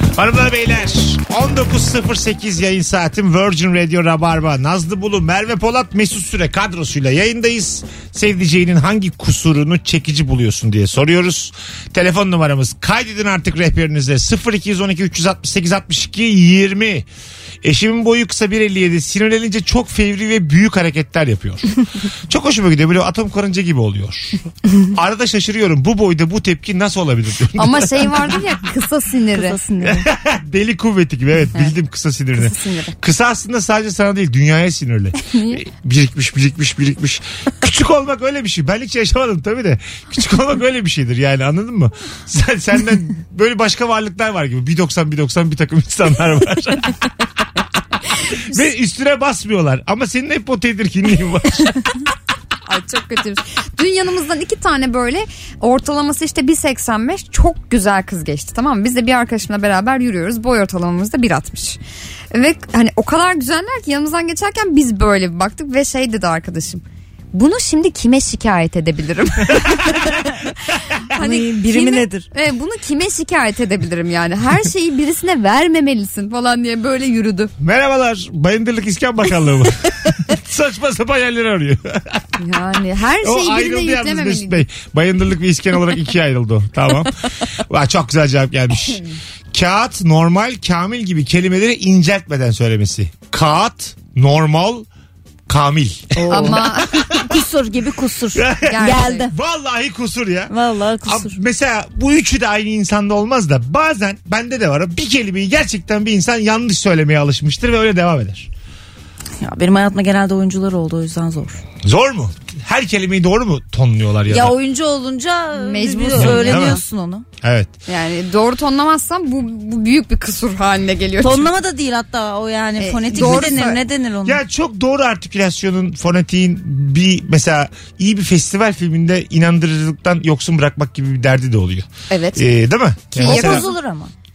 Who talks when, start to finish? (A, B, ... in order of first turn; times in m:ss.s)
0:00.2-0:17.0 A
0:17.6-0:21.7 A
0:22.3-0:28.4 A
0:27.6-0:29.6 B
0:29.3-0:30.0 C
0:29.8-0:46.9 A
0:32.4-0:32.9 B
0:35.3-0:35.6 B
0:48.5-0:51.8 A
0:52.6-1:01.8 B
1:02.3-1:10.2 B
1:11.1-1:17.5 B
1:11.1-1:12.2 C
1:17.6-1:22.2 A
1:22.4-1:24.6 B
1:23.2-1:34.9 A
1:35.5-1:37.3 A
1:36.2-1:39.3 C
1:36.3-1:37.2 B
1:38.3-1:40.5 A
1:38.6-1:39.3 B
1:40.5-1:41.4 C
1:41.0-1:48.5 A
1:49.4-1:51.6 C
1:51.8-1:54.6 A
1:54.3-1:57.2 C
1:55.6-1:56.8 B
1:56.1-1:56.8 A
1:57.4-1:57.7 A
1:57.9-2:01.5 B
2:01.2-2:04.4 C
2:02.8-2:03.8 B
2:03.1-2:03.6 A
2:04.2-2:13.6 A
2:12.1-2:12.5 B
2:13.1-2:13.7 B
2:13.2-2:14.1 C